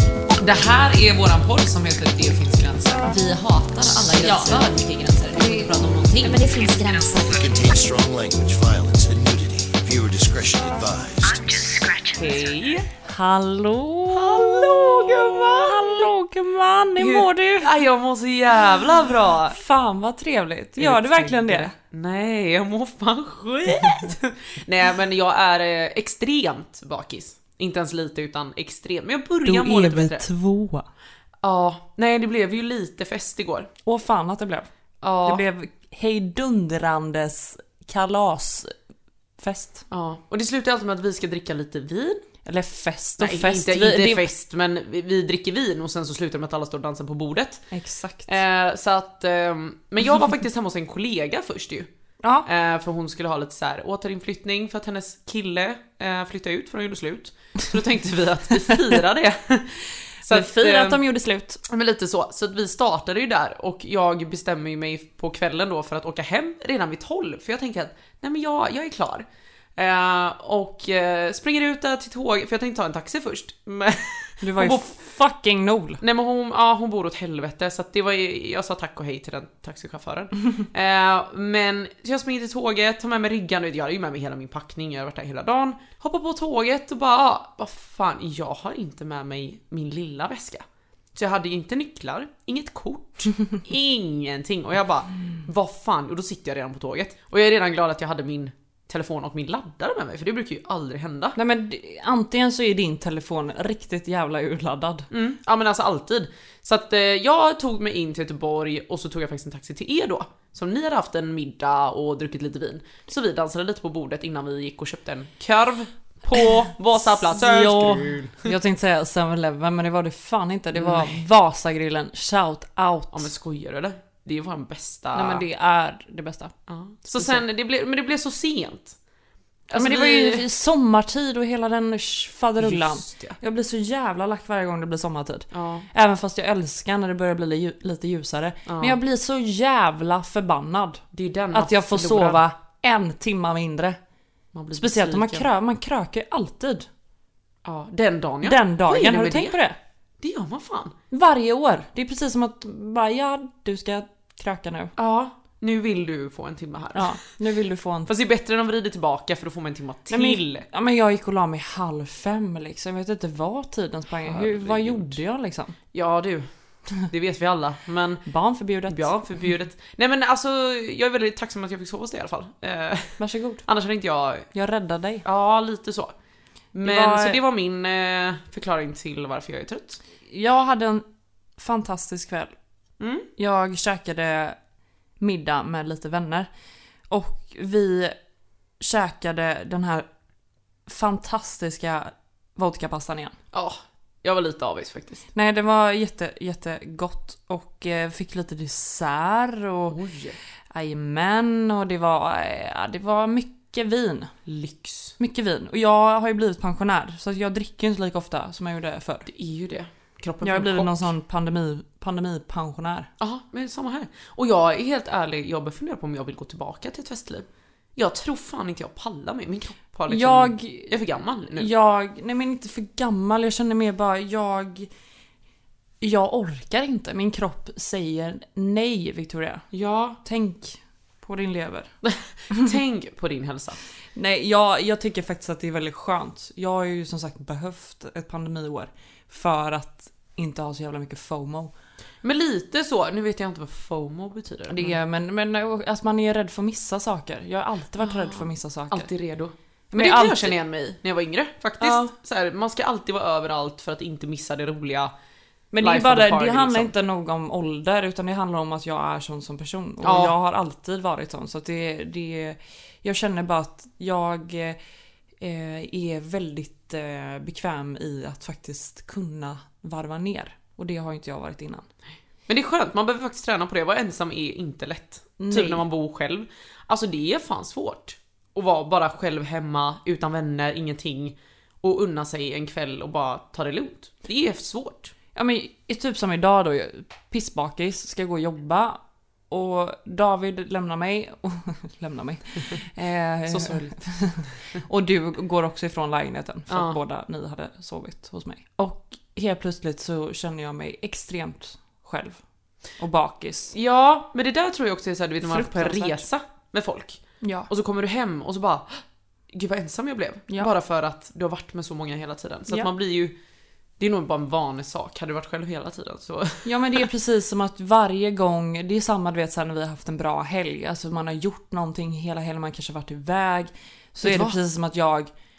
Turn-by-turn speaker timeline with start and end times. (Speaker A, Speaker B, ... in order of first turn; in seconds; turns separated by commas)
Speaker A: 0.4-6.5, Speaker B: 4.2-4.7, Speaker C: 4.2-4.6, Speaker C: 5.4-7.7, Speaker D: 7.2-11.4, Speaker C: 11.2-12.6, Speaker A: 12.2-12.9, Speaker B: 13.1-17.8, Speaker A: 14.1-16.1, Speaker A: 17.0-19.6, Speaker B: 19.5-21.8, Speaker A: 20.8-30.3, Speaker B: 29.4-30.9, Speaker A: 31.4-33.7, Speaker B: 33.9-34.7, Speaker A: 35.0-35.5, Speaker B: 35.2-38.7, Speaker B: 39.4-39.9, Speaker A: 39.9-42.3, Speaker B: 42.4-44.3, Speaker A: 43.2-47.7, Speaker B: 47.7-48.4, Speaker A: 48.3-51.9, Speaker A: 52.4-61.0, Speaker B: 60.3-61.6, Speaker A: 61.7-69.3, Speaker A: 69.8-74.9, Speaker B: 74.4-76.0, Speaker A: 76.0-101.4, Speaker B: 101.4-105.1, Speaker A: 105.1-118.5, Speaker B: 117.2-123.3, Speaker A: 120.7-121.2, Speaker A: 123.1-125.5, Speaker B: 125.1-126.5, Speaker A: 126.7-129.0, Speaker B: 127.1-127.4, Speaker A: 129.7-130.5, Speaker B: 129.7-141.0, Speaker A: 132.6-133.4, Speaker A: 135.5-135.9, Speaker A: 138.7-139.0, Speaker A: 141.1-142.4, Speaker B: 141.5-144.0, Speaker A: 144.5-145.5, Speaker B: 144.7-146.9, Speaker A: 147.6-149.6, Speaker B: 148.4-149.8, Speaker A: 150.2-150.9, Speaker B: 151.1-154.9, Speaker A: 155.0-157.2, Speaker B: 156.9-158.1, Speaker A: 158.1-160.7, Speaker B: 160.1-165.8, Speaker A: 164.2-165.2, Speaker A: 165.9-168.3, Speaker B: 168.3-169.2, Speaker A: 168.9-174.5, Speaker B: 173.2-173.6, Speaker B: 174.5-175.2, Speaker A: 175.2-176.1, Speaker A: 176.7-180.0, Speaker B: 176.8-177.4, Speaker B: 180.3-181.1, Speaker B: 181.6-182.6, Speaker A: 183.0-183.3, Speaker B: 183.4-184.6, Speaker B: 185.2-186.5, Speaker B: 187.1-188.2, Speaker B: 188.8-190.1, Speaker B: 190.9-193.4, Speaker A: 193.5-195.3, Speaker B: 195.3-200.0, Speaker A: 199.9-200.4, Speaker B: 200.7-204.3, Speaker A: 204.5-205.2, Speaker B: 205.2-209.3, Speaker A: 209.3-211.1, Speaker B: 210.4-213.1, Speaker A: 213.2-221.7, Speaker B: 220.1-221.0, Speaker B: 221.5-224.9, Speaker B: 226.0-229.7, Speaker A: 229.7-230.2, Speaker B: 230.2-231.9, Speaker A: 232.0-233.8, Speaker B: 234.2-241.7, Speaker A: 242.2-245.0, Speaker B: 244.7-249.1, Speaker A: 248.0-255.1, Speaker B: 249.9-250.6, Speaker B: 251.8-252.1, Speaker B: 255.7-264.8, Speaker A: 255.8-256.9, Speaker A: 260.0-260.3, Speaker B: 265.4-271.9, Speaker A: 272.5-285.1, Speaker B: 275.4-275.9, Speaker B: 285.4-302.4, Speaker A: 293.5-294.0, Speaker A: 296.7-297.0, Speaker B: 303.0-303.7, Speaker A: 303.7-313.4, Speaker B: 305.4-306.3, Speaker B: 307.4-307.7, Speaker A: 314.0-317.1, Speaker B: 316.6-325.3, Speaker A: 324.2-324.6